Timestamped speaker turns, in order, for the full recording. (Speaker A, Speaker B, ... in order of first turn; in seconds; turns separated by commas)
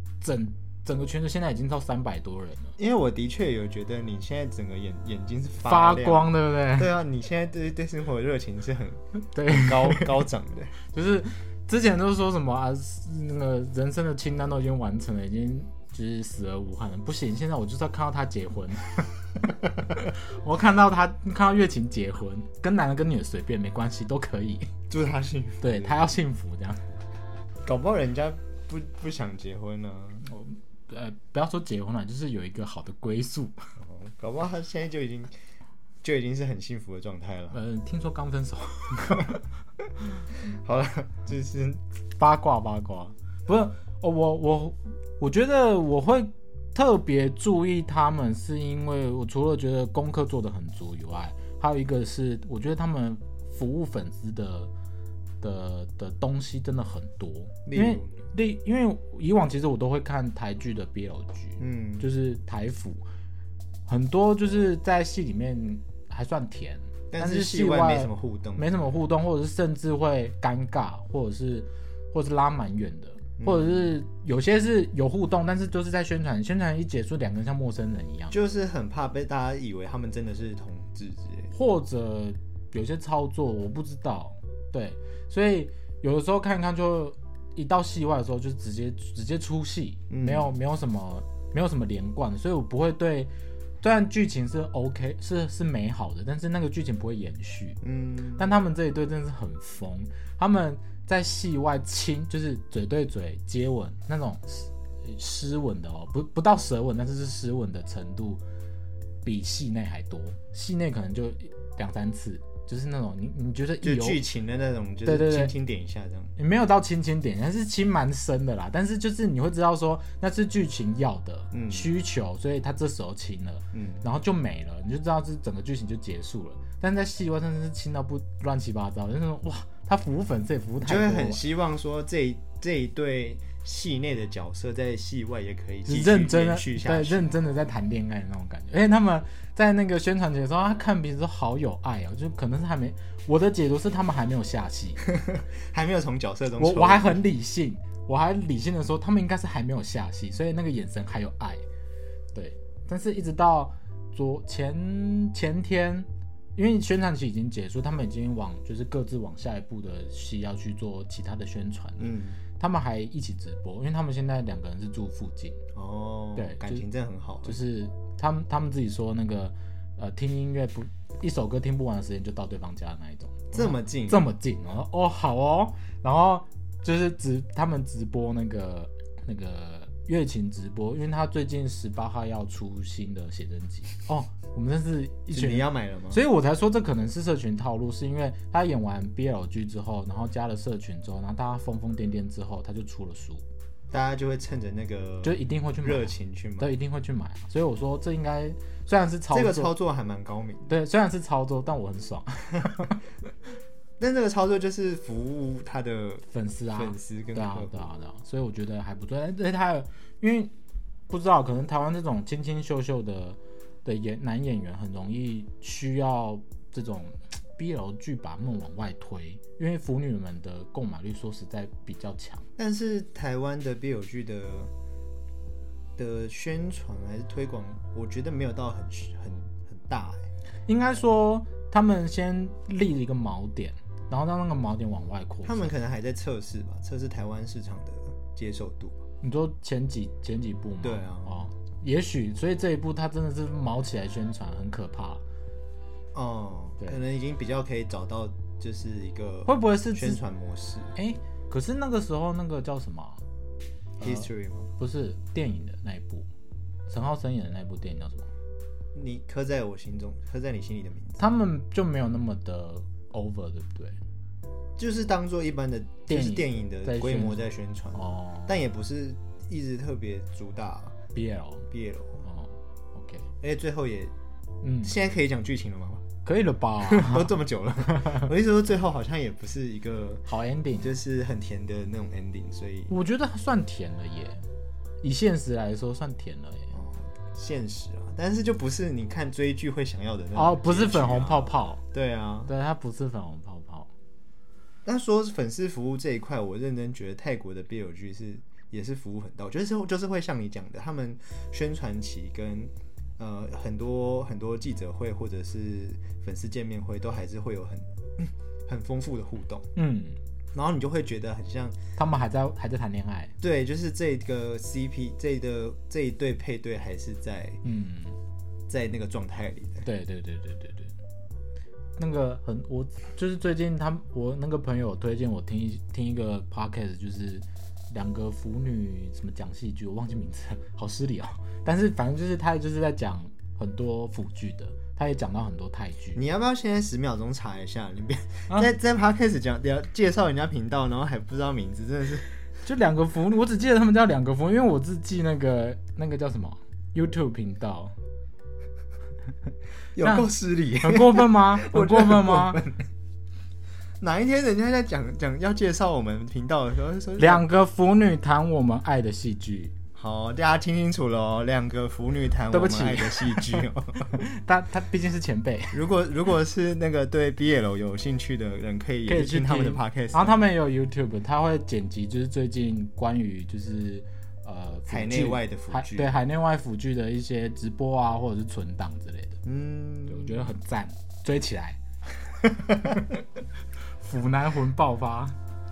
Speaker A: 0.2-2.8, Speaker B: 2.8-10.8, Speaker A: 5.6-6.9, Speaker A: 9.2-10.1, Speaker A: 10.9-19.1, Speaker A: 19.9-24.7, Speaker B: 24.9-26.1, Speaker A: 25.6-26.8, Speaker B: 27.6-30.3, Speaker A: 30.2-33.6, Speaker B: 33.8-35.3, Speaker B: 36.0-37.6, Speaker A: 37.5-39.4, Speaker B: 40.4-41.8, Speaker A: 42.2-54.7, Speaker A: 55.4-63.0, Speaker B: 57.7-58.2, Speaker B: 61.6-62.1, Speaker A: 63.9-78.3, Speaker B: 67.1-68.7, Speaker B: 73.4-73.9, Speaker B: 78.3-81.5, Speaker A: 81.5-93.3, Speaker B: 90.1-90.5, Speaker A: 93.8-97.8, Speaker B: 97.8-98.5, Speaker A: 98.4-108.4, Speaker A: 109.2-114.2, Speaker B: 113.8-116.3, Speaker A: 115.0-115.5, Speaker A: 116.4-131.4, Speaker B: 121.5-121.9, Speaker B: 123.7-124.0, Speaker B: 130.8-137.4, Speaker A: 135.9-145.0, Speaker B: 145.0-147.2, Speaker A: 146.6-151.6, Speaker A: 152.3-165.6, Speaker B: 162.0-162.4, Speaker B: 165.8-167.6, Speaker A: 166.4-166.8, Speaker A: 167.4-193.4, Speaker B: 173.5-174.3, Speaker B: 185.3-186.2, Speaker B: 193.9-196.7, Speaker A: 195.2-199.7, Speaker B: 199.3-200.7, Speaker A: 200.7-203.0, Speaker B: 204.0-207.9, Speaker A: 206.3-210.5, Speaker A: 211.1-222.5, Speaker B: 222.6-224.7, Speaker B: 226.0-230.3, Speaker A: 230.7-235.7, Speaker B: 235.4-239.0, Speaker A: 239.2-245.2, Speaker B: 240.8-241.4, Speaker B: 246.1-250.9, Speaker A: 249.5-250.2, Speaker A: 251.0-253.2, Speaker B: 254.0-254.7, Speaker A: 254.0-256.3, Speaker A: 256.9-258.3, Speaker B: 258.9-261.2, Speaker A: 261.2-264.0, Speaker B: 264.8-271.0, Speaker A: 266.1-268.5, Speaker A: 271.1-271.7, Speaker B: 271.7-272.2, Speaker A: 272.2-273.3, Speaker B: 273.4-274.1, Speaker A: 274.6-274.9, Speaker B: 274.8-276.1, Speaker A: 276.2-277.4, Speaker B: 276.8-280.2, Speaker A: 277.9-278.3, Speaker A: 280.3-280.9, Speaker B: 280.8-282.9, Speaker A: 282.9-284.4, Speaker A: 285.0-286.7, Speaker B: 286.7-292.5, Speaker A: 290.4-291.8, Speaker A: 292.5-293.9, Speaker B: 294.9-309.7, Speaker A: 309.8-310.2, Speaker B: 310.5-311.8, Speaker A: 312.0-313.3, Speaker B: 313.4-317.6, Speaker A: 317.6-318.2, Speaker B: 318.7-319.9, Speaker A: 319.9-320.9, Speaker A: 322.0-336.2, Speaker B: 336.1-342.3, Speaker A: 342.6-347.9, Speaker B: 349.9-352.9, Speaker A: 350.0-352.6, Speaker B: 354.0-357.5, Speaker A: 357.2-359.7, Speaker B: 359.9-364.2, Speaker A: 362.5-365.8, Speaker B: 365.7-370.4, Speaker A: 369.1-379.4, Speaker B: 374.9-376.2, Speaker B: 379.4-380.5, Speaker A: 380.1-381.8, Speaker A: 384.0-385.4